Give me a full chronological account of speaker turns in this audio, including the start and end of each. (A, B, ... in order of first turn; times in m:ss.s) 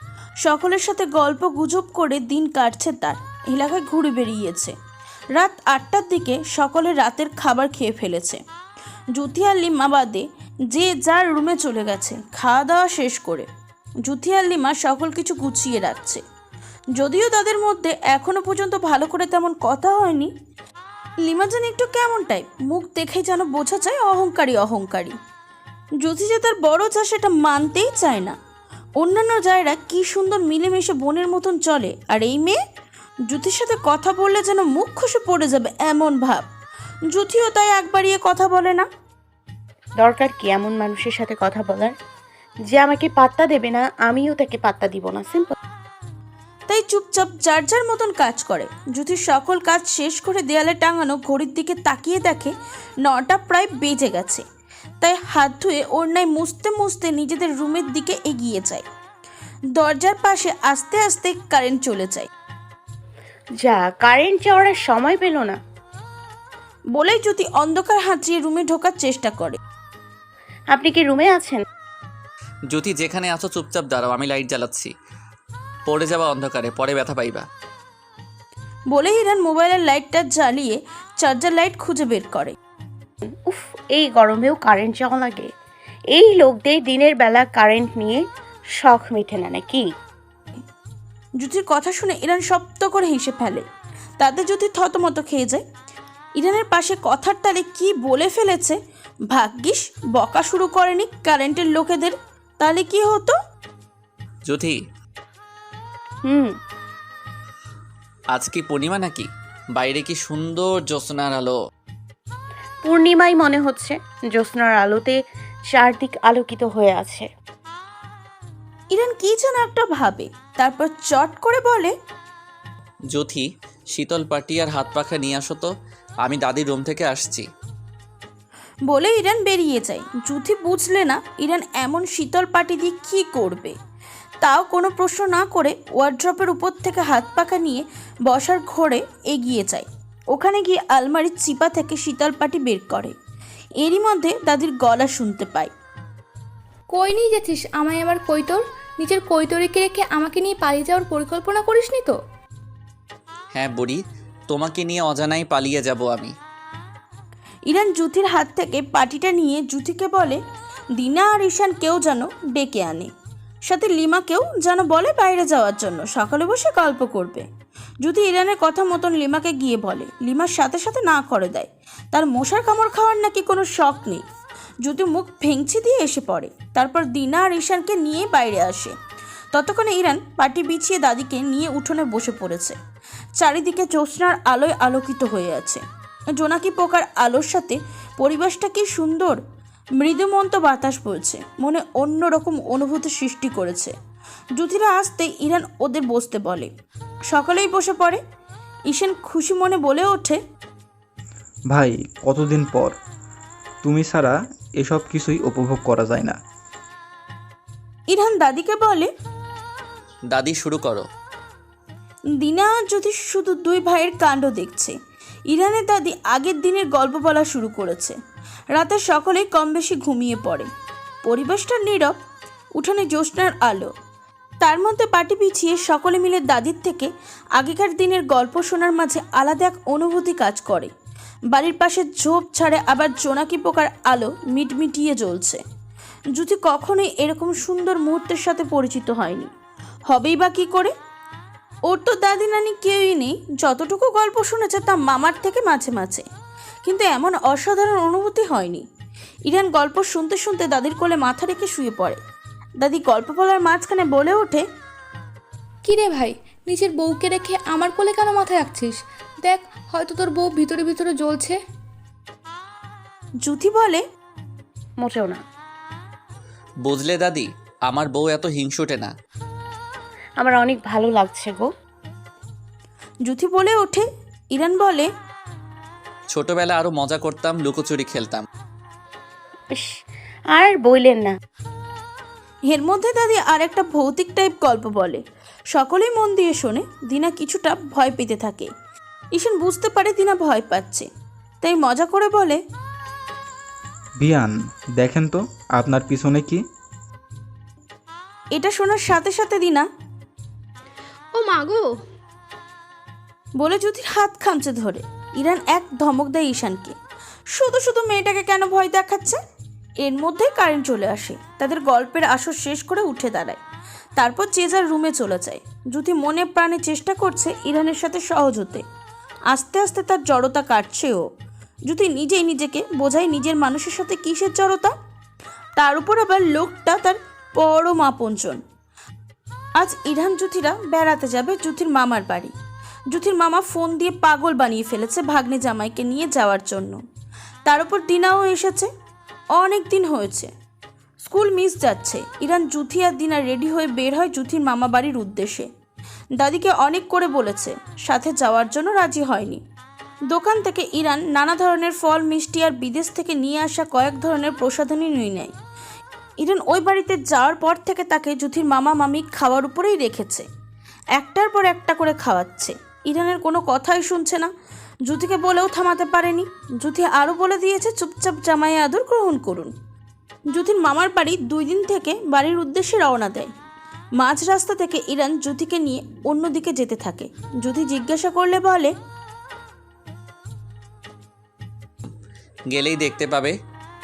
0:00.4-0:04.7 A
0:05.4-0:08.4 A
0:09.1-0:13.5 A
0:14.0-0:16.2 A
0:17.0-0:20.3 A
0:21.2-0:25.1 A
0:26.0-0:28.4 A
0:29.0-0:32.6 A
0:33.3-0:36.4 A
0:37.1-0:38.9 A
0:40.0-0:41.9 B
0:42.7-0:45.5 B
0:46.7-0:52.5 A
0:53.0-0:54.4 A
0:55.0-0:58.8 A
0:59.8-1:02.3 A
1:03.6-1:05.6 B
1:06.9-1:09.6 A
1:10.7-1:11.6 B
1:12.7-1:14.9 C
1:15.9-1:17.4 C
1:18.9-1:22.6 A
1:23.4-1:25.5 B
1:26.2-1:28.2 B
1:28.8-1:29.9 B
1:31.4-1:33.6 A
1:34.2-1:35.6 A
1:36.4-1:38.8 A
1:39.3-1:43.3 A
1:44.5-1:44.8 C
1:48.3-1:51.6 C
1:52.8-1:55.2 B
1:55.7-1:57.3 B
1:58.9-2:01.9 A
2:03.1-2:05.7 C
2:06.2-2:07.5 C
2:08.9-2:13.8 A
2:14.4-2:23.1 A
2:23.8-2:25.7 A
2:26.9-2:32.1 D
2:33.5-2:36.3 C
2:37.7-2:40.4 A
2:41.0-2:43.1 A
2:43.7-2:47.4 A
2:48.0-2:54.2 A
2:54.8-2:58.9 A
2:59.5-3:02.8 A
3:03.4-3:05.8 A
3:06.4-3:09.4 A
3:10.0-3:13.9 A
3:14.6-3:16.7 A
3:17.3-3:18.2 A
3:18.9-3:20.4 A
3:21.7-3:23.0 E
3:23.8-3:26.4 E
3:28.1-3:29.1 A
3:30.3-3:31.0 C
3:32.4-3:34.9 A
3:35.5-3:38.2 A
3:38.7-3:40.7 A
3:41.2-3:42.1 A
3:42.8-3:43.9 A
3:44.6-3:50.9 A
3:51.5-3:55.6 A
3:56.4-3:59.5 A
4:00.1-4:00.9 A
4:01.9-4:06.2 A
4:06.8-4:08.8 A
4:09.5-4:12.2 A
4:12.8-4:14.6 A
4:15.8-4:21.6 D
4:23.4-4:24.0 A
4:25.0-4:25.4 B
4:26.8-4:29.1 C
4:30.4-4:31.7 B
4:33.2-4:35.1 A
4:36.3-4:38.4 C
4:40.5-4:41.3 B
4:42.7-4:48.7 A
4:49.3-4:51.1 A
4:51.6-4:52.6 A
4:54.2-4:56.6 E
4:58.5-4:59.8 A
5:01.3-5:01.9 D
5:03.6-5:06.9 A
5:07.5-5:09.4 A
5:10.0-5:13.6 A
5:14.2-5:18.8 A
5:19.5-5:21.2 A
5:21.9-5:24.9 A
5:25.8-5:28.6 A
5:29.8-5:32.5 A
5:33.1-5:37.0 A
5:37.6-5:38.9 A
5:39.6-5:40.5 A
5:41.2-5:45.7 A
5:46.4-5:49.6 A
5:50.3-5:55.5 A
5:56.4-6:00.4 A
6:01.2-6:04.5 A
6:05.1-6:09.7 A
6:10.5-6:13.5 A
6:14.2-6:18.9 A
6:22.7-6:23.5 C